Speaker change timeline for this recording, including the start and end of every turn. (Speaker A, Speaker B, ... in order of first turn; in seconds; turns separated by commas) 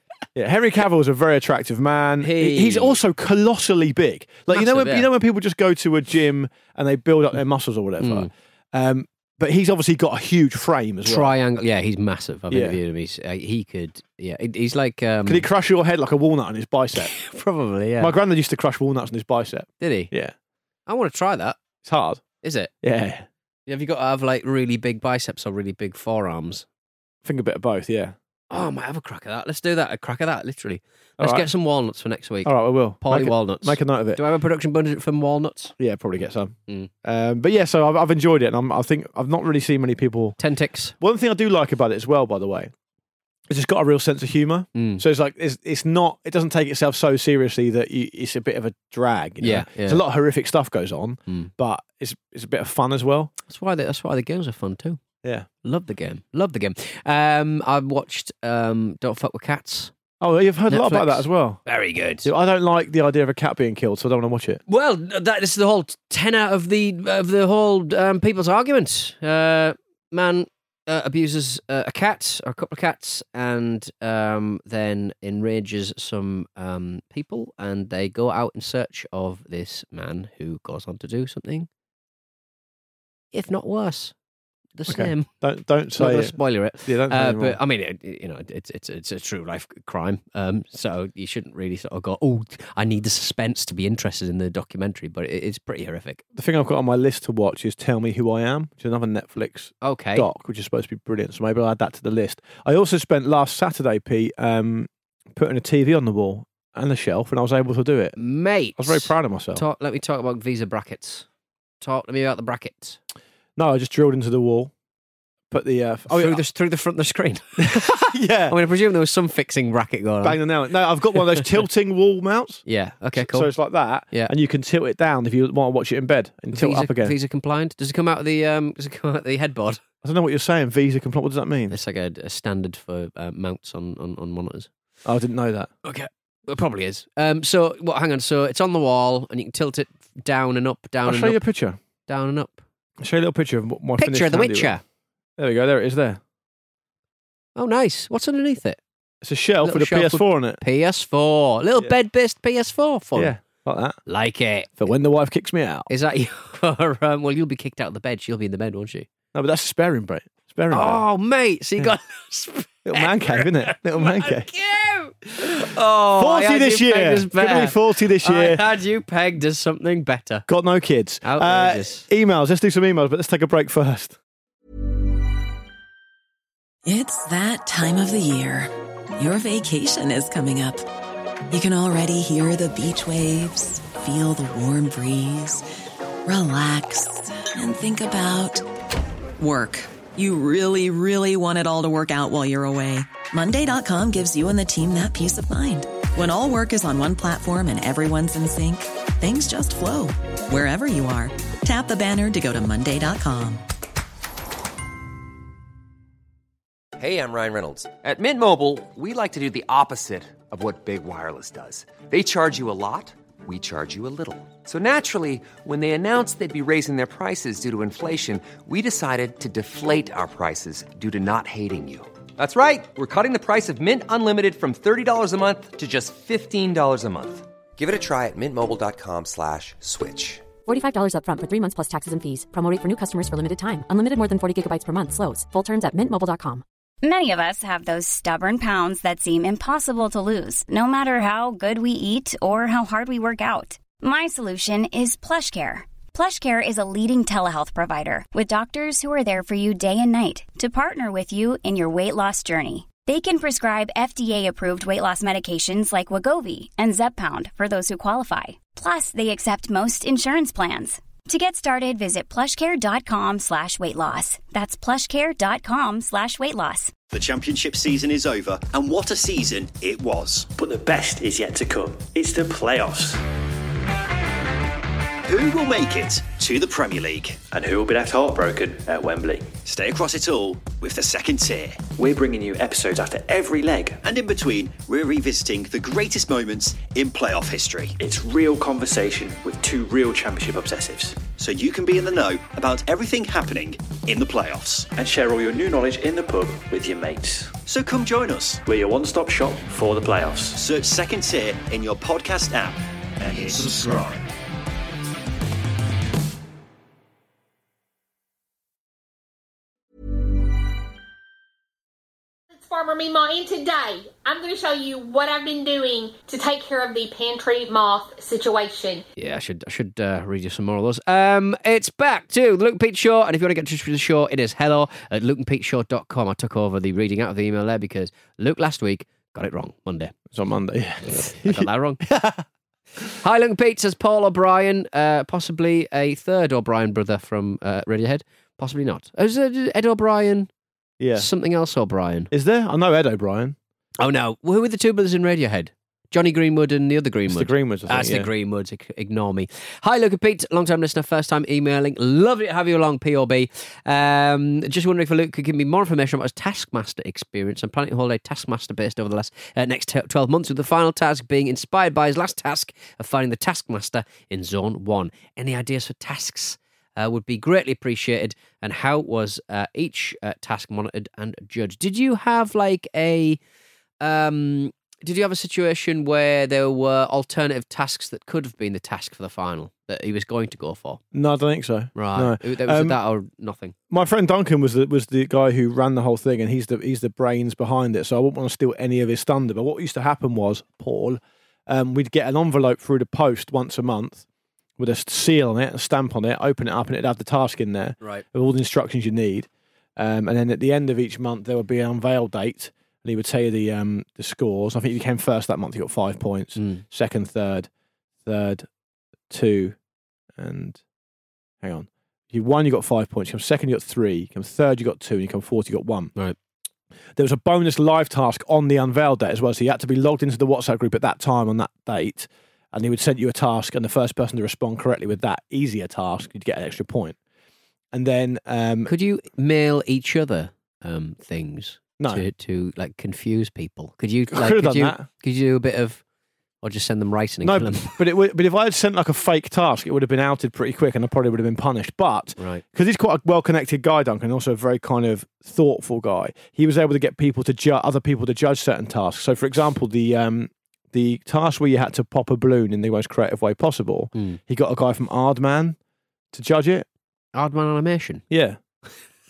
Speaker A: 0.3-11.3, Speaker B: 2.2-3.0, Speaker B: 4.5-5.1, Speaker B: 8.0-8.3, Speaker B: 11.0-15.5, Speaker A: 12.5-12.8, Speaker A: 15.2-17.1, Speaker B: 17.0-18.1, Speaker A: 18.0-20.3, Speaker B: 19.8-20.1, Speaker B: 20.9-21.6, Speaker A: 21.8-22.2, Speaker B: 22.4-22.7, Speaker A: 22.8-23.3, Speaker B: 23.7-26.6, Speaker A: 27.2-28.1, Speaker B: 28.5-35.7, Speaker A: 31.2-31.5, Speaker A: 32.4-34.2, Speaker A: 35.8-40.4, Speaker B: 40.4-40.9, Speaker A: 41.0-42.7, Speaker A: 43.5-53.3, Speaker B: 44.7-45.0, Speaker B: 49.4-50.0, Speaker B: 53.5-55.0, Speaker B: 55.6-59.9, Speaker A: 60.2-61.6, Speaker B: 60.7-62.3, Speaker A: 62.2-64.6, Speaker B: 64.7-81.7, Speaker B: 83.3-84.1, Speaker B: 84.8-85.3, Speaker A: 84.9-87.6, Speaker B: 86.0-96.2, Speaker A: 96.3-108.2, Speaker B: 99.8-100.3, Speaker B: 108.2-111.2, Speaker A: 108.8-109.6, Speaker B: 111.8-113.0, Speaker A: 113.5-114.7, Speaker A: 115.5-116.4, Speaker B: 116.1-117.9, Speaker A: 117.6-118.6, Speaker B: 118.5-120.4, Speaker A: 120.2-122.6, Speaker B: 121.1-121.4, Speaker B: 122.7-123.5, Speaker A: 123.1-127.1, Speaker B: 126.5-129.8, Speaker A: 130.0-131.8, Speaker B: 131.7-134.7, Speaker A: 135.0-135.7, Speaker B: 135.8-141.4, Speaker A: 141.0-141.8, Speaker B: 142.1-142.6, Speaker A: 143.0-144.7, Speaker B: 144.0-144.8, Speaker A: 145.4-146.2, Speaker B: 147.6-148.8, Speaker A: 149.2-150.6, Speaker B: 149.6-153.3, Speaker A: 153.1-154.0, Speaker B: 154.1-154.8, Speaker A: 154.8-155.9, Speaker B: 155.9-159.1, Speaker A: 159.3-161.0, Speaker B: 160.7-170.4, Speaker A: 162.8-164.5, Speaker A: 166.1-168.6, Speaker A: 170.5-174.2, Speaker B: 171.2-172.1, Speaker C: 176.8-180.8, Speaker C: 181.5-185.6, Speaker C: 186.2-188.6, Speaker C: 189.4-203.6, Speaker D: 207.0-230.4, Speaker E: 230.7-236.6, Speaker F: 237.0-266.9, Speaker G: 267.1-270.5, Speaker H: 270.6-273.2, Speaker G: 275.2-277.5, Speaker H: 277.5-279.6, Speaker G: 279.6-281.9, Speaker H: 281.9-284.0, Speaker G: 284.0-287.9, Speaker H: 288.0-291.3, Speaker G: 291.3-294.9, Speaker H: 294.9-297.6, Speaker G: 297.6-298.6, Speaker H: 298.6-300.6, Speaker G: 300.6-304.1, Speaker I: 312.5-319.0, Speaker B: 319.2-330.1, Speaker A: 330.3-332.4, Speaker B: 331.1-332.0, Speaker B: 333.2-340.5, Speaker A: 341.0-341.3, Speaker B: 341.1-342.3, Speaker A: 342.3-343.6, Speaker B: 344.0-373.4, Speaker A: 347.3-348.3, Speaker B: 374.0-381.0, Speaker A: 381.1-383.0, Speaker B: 381.9-383.7, Speaker A: 383.9-394.2, Speaker A: 394.8-407.7, Speaker B: 406.6-406.8, Speaker A: 408.2-408.7, Speaker A: 409.3-409.8, Speaker A: 410.4-410.8, Speaker A: 411.6-416.1, Speaker A: 417.1-427.1, Speaker A: 427.9-428.9, Speaker B: 428.9-436.0, Speaker A: 432.0-432.2, Speaker A: 434.3-435.1, Speaker B: 436.6-438.0, Speaker A: 437.4-455.8, Speaker B: 442.4-442.6, Speaker A: 456.3-456.9, Speaker B: 457.3-458.2, Speaker A: 458.3-458.6